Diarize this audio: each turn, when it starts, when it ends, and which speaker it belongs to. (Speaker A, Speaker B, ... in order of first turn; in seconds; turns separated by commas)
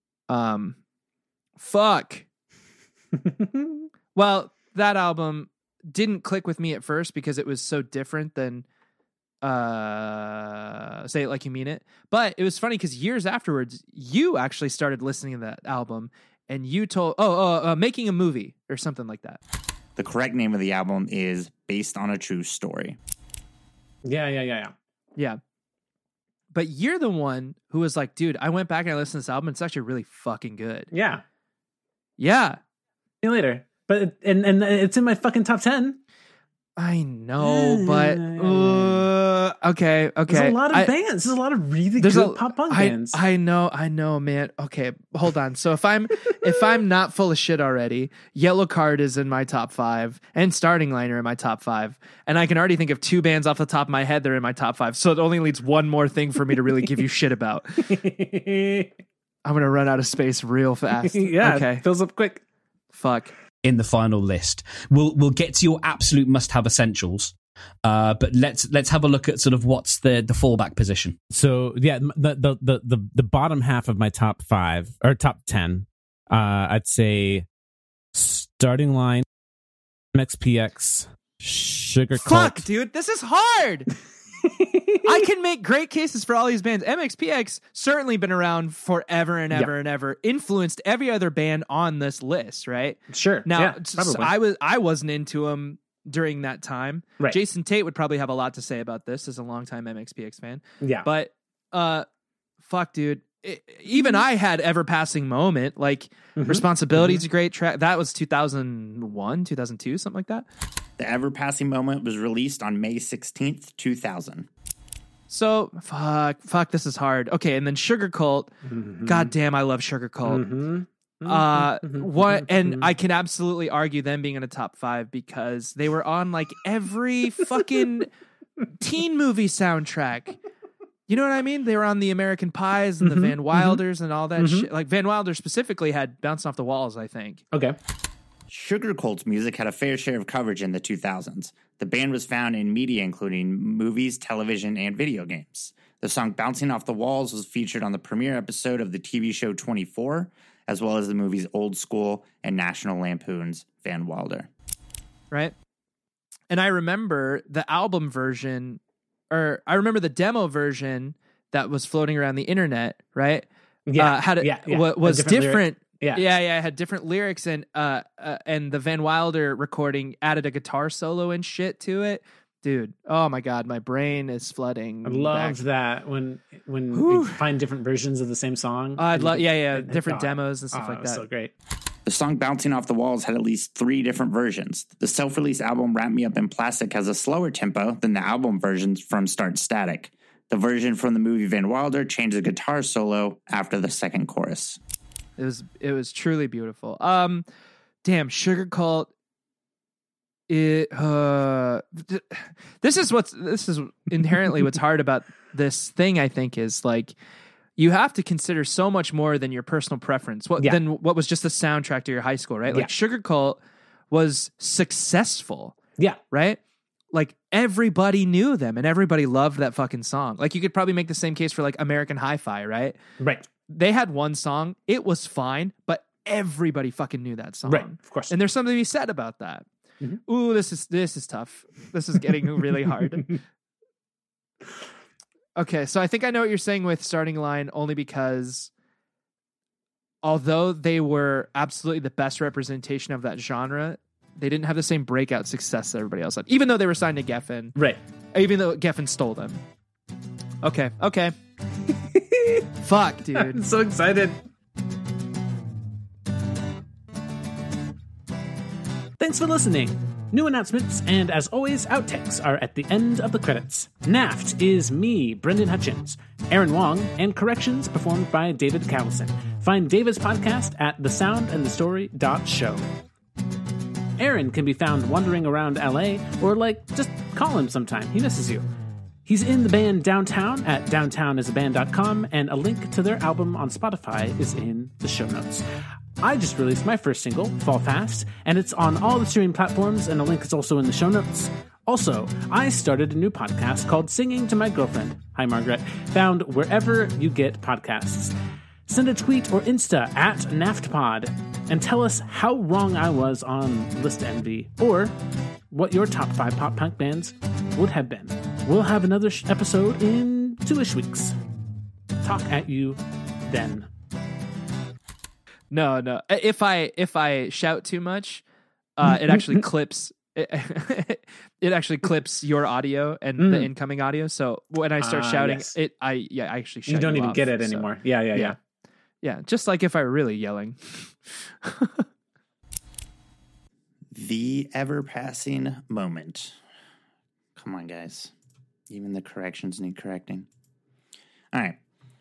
Speaker A: 0.3-0.8, Speaker A: 1.6-2.2, Speaker B: 3.1-3.9, Speaker A: 4.1-8.6, Speaker A: 9.4-19.4, Speaker C: 20.0-23.0, Speaker B: 24.0-24.7, Speaker A: 26.5-30.9, Speaker B: 30.9-31.2, Speaker A: 32.2-32.6, Speaker B: 33.2-36.0, Speaker A: 36.8-40.9, Speaker B: 37.4-39.1, Speaker B: 40.3-43.2, Speaker A: 42.0-58.0, Speaker B: 57.8-58.9, Speaker A: 59.4-61.9, Speaker B: 61.0-62.4, Speaker A: 62.9-63.3, Speaker D: 63.6-71.2, Speaker E: 71.3-77.5, Speaker E: 78.1-79.2, Speaker E: 80.1-82.6, Speaker A: 82.2-83.9, Speaker B: 84.4-85.1, Speaker A: 85.0-102.0, Speaker B: 93.1-94.3, Speaker B: 100.8-101.1, Speaker A: 102.6-110.5, Speaker B: 106.3-107.2, Speaker C: 111.0-114.5, Speaker A: 115.3-118.5, Speaker B: 118.7-119.3, Speaker A: 119.0-120.5, Speaker B: 120.2-122.9, Speaker A: 121.2-128.1, Speaker A: 128.8-130.4, Speaker A: 131.1-137.4, Speaker B: 133.0-133.8, Speaker B: 134.4-134.7, Speaker B: 137.5-137.8, Speaker C: 138.5-154.5, Speaker A: 156.5-175.6, Speaker B: 163.8-166.3, Speaker B: 175.0-181.5, Speaker A: 176.9-177.4, Speaker A: 179.0-181.2, Speaker C: 182.1-194.8, Speaker A: 195.4-197.4, Speaker A: 198.0-199.1, Speaker A: 200.5-207.2, Speaker A: 207.8-215.8, Speaker A: 216.3-216.6, Speaker A: 217.1-223.0, Speaker B: 223.2-223.5, Speaker A: 223.7-229.6, Speaker B: 227.6-228.3, Speaker A: 230.2-233.4, Speaker A: 235.6-238.7, Speaker A: 240.2-247.8, Speaker A: 248.3-249.6, Speaker A: 250.6-251.3, Speaker B: 251.9-252.7, Speaker A: 252.8-253.6, Speaker B: 253.3-254.4, Speaker B: 259.2-272.9, Speaker B: 274.2-278.6, Speaker B: 279.2-285.6, Speaker B: 286.2-298.3, Speaker B: 298.9-305.1, Speaker B: 305.7-311.4, Speaker B: 312.2-313.9, Speaker A: 315.7-318.4, Speaker A: 319.0-328.6, Speaker B: 319.1-319.6, Speaker B: 323.4-323.7, Speaker B: 325.0-325.7, Speaker B: 326.9-328.6, Speaker A: 329.2-332.0, Speaker C: 334.1-336.5, Speaker C: 337.6-338.3, Speaker C: 338.9-340.5, Speaker C: 341.5-341.8